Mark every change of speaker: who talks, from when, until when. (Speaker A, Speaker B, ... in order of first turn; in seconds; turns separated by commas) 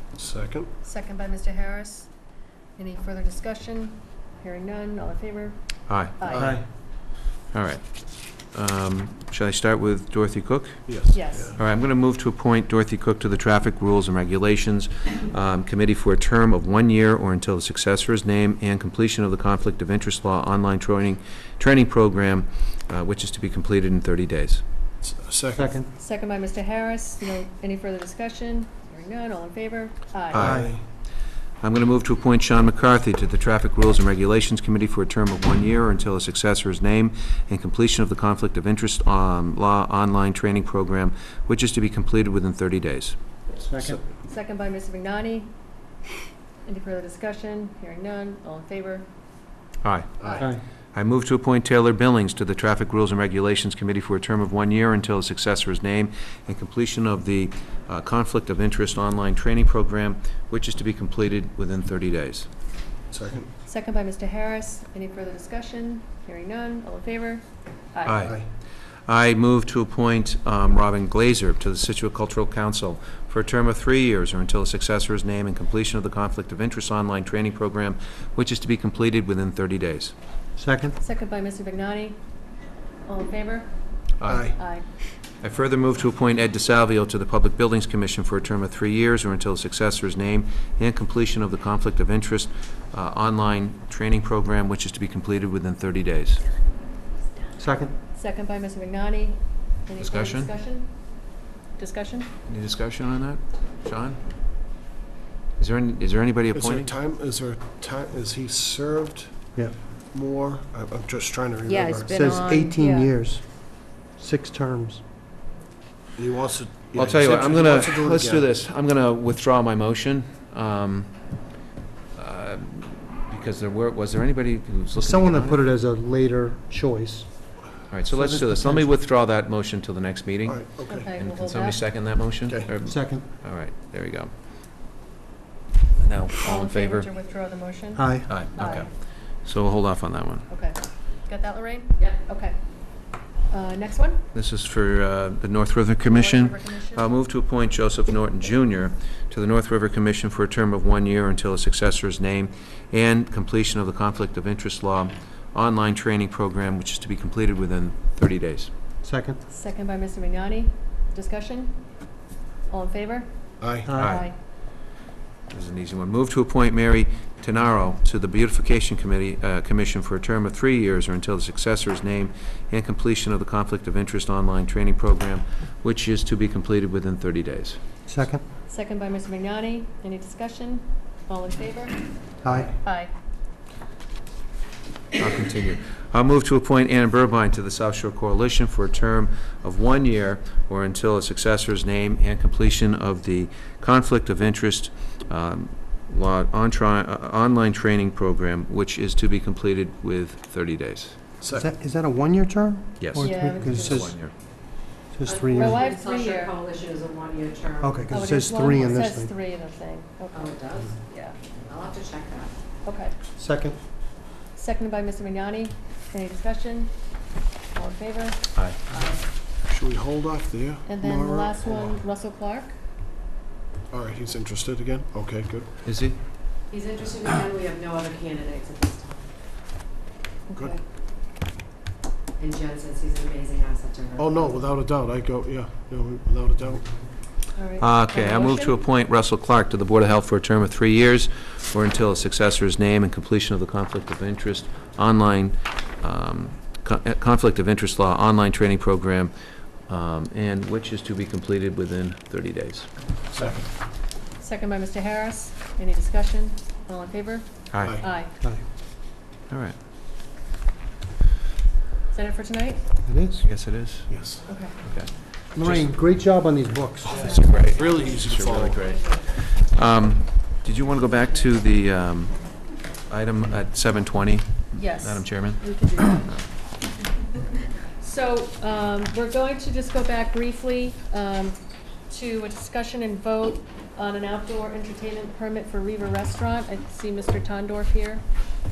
Speaker A: 0.2-0.7, Speaker B: 0.8-2.1, Speaker B: 2.8-5.6, Speaker C: 5.9-6.2, Speaker B: 6.2-6.5, Speaker A: 6.3-6.6, Speaker D: 6.3-6.6, Speaker C: 7.5-7.8, Speaker C: 8.5-10.9, Speaker A: 10.9-11.6, Speaker B: 11.1-11.6, Speaker C: 11.6-24.6, Speaker A: 25.0-25.8, Speaker D: 25.6-25.9, Speaker B: 26.0-30.5, Speaker C: 30.3-30.6, Speaker D: 30.4-30.7, Speaker A: 30.4-30.8, Speaker C: 31.6-43.1, Speaker D: 43.6-44.0, Speaker B: 44.3-45.5, Speaker B: 46.7-49.1, Speaker C: 49.8-62.5, Speaker B: 50.2-50.5, Speaker A: 63.1-63.5, Speaker B: 63.7-68.3, Speaker C: 68.0-68.5, Speaker C: 69.1-80.1, Speaker D: 80.6-81.0, Speaker B: 81.0-82.2, Speaker B: 83.1-83.7, Speaker C: 84.2-84.5, Speaker A: 84.3-84.6, Speaker B: 84.5-84.9, Speaker C: 85.4-96.4, Speaker D: 97.6-97.9, Speaker B: 98.2-100.9, Speaker C: 100.0-100.5, Speaker B: 101.8-102.3, Speaker C: 102.5-104.2, Speaker C: 105.6-106.9, Speaker A: 106.5-109.5, Speaker A: 110.1-112.6, Speaker E: 111.7-112.8, Speaker D: 112.0-115.0, Speaker B: 112.6-113.1, Speaker A: 116.2-118.5, Speaker C: 117.0-121.2, Speaker C: 122.2-125.6, Speaker D: 125.0-127.3, Speaker C: 127.9-134.3, Speaker D: 128.1-128.9, Speaker A: 130.5-131.1, Speaker B: 130.9-131.9, Speaker A: 132.5-132.7, Speaker D: 132.8-133.2, Speaker C: 136.0-137.1, Speaker B: 136.4-138.9, Speaker D: 137.9-138.3, Speaker C: 138.3-140.5, Speaker B: 140.5-142.6, Speaker B: 143.5-144.2, Speaker C: 144.3-158.7, Speaker B: 146.1-147.1, Speaker D: 159.0-159.4, Speaker B: 159.5-161.8, Speaker B: 162.7-163.3, Speaker A: 163.6-163.9, Speaker D: 163.8-164.2, Speaker B: 163.9-164.3, Speaker C: 164.0-164.3, Speaker C: 165.5-177.8, Speaker D: 178.1-178.4, Speaker B: 178.7-182.1, Speaker D: 182.4-182.8, Speaker B: 182.8-183.1, Speaker C: 185.2-201.2, Speaker A: 201.4-201.7, Speaker D: 201.5-204.2, Speaker C: 203.0-204.3, Speaker B: 203.2-204.1, Speaker D: 205.1-205.8, Speaker E: 205.2-208.9, Speaker B: 205.5-206.6, Speaker D: 207.8-209.3, Speaker B: 208.1-211.4, Speaker E: 210.3-211.0, Speaker E: 211.7-212.6, Speaker B: 212.8-213.2, Speaker D: 213.4-213.8, Speaker B: 214.6-216.9, Speaker B: 217.7-219.2, Speaker A: 219.7-222.0, Speaker B: 220.9-222.8, Speaker A: 223.9-225.7, Speaker C: 225.8-226.2, Speaker E: 226.7-229.3, Speaker B: 230.5-230.8, Speaker E: 232.4-234.7, Speaker A: 234.2-236.9, Speaker B: 237.6-238.8, Speaker C: 237.8-249.3, Speaker C: 249.9-252.9, Speaker A: 253.3-253.7, Speaker B: 254.4-258.3, Speaker C: 257.7-258.0, Speaker C: 259.5-259.8, Speaker B: 262.1-262.8, Speaker D: 263.1-263.4, Speaker C: 263.4-265.9, Speaker A: 264.1-264.5, Speaker B: 264.5-264.8, Speaker D: 265.5-267.2, Speaker A: 267.1-268.8, Speaker E: 267.1-267.9, Speaker C: 267.1-276.4, Speaker E: 268.8-269.3, Speaker E: 271.0-271.5, Speaker B: 274.7-276.3, Speaker B: 278.0-281.6, Speaker B: 282.1-288.2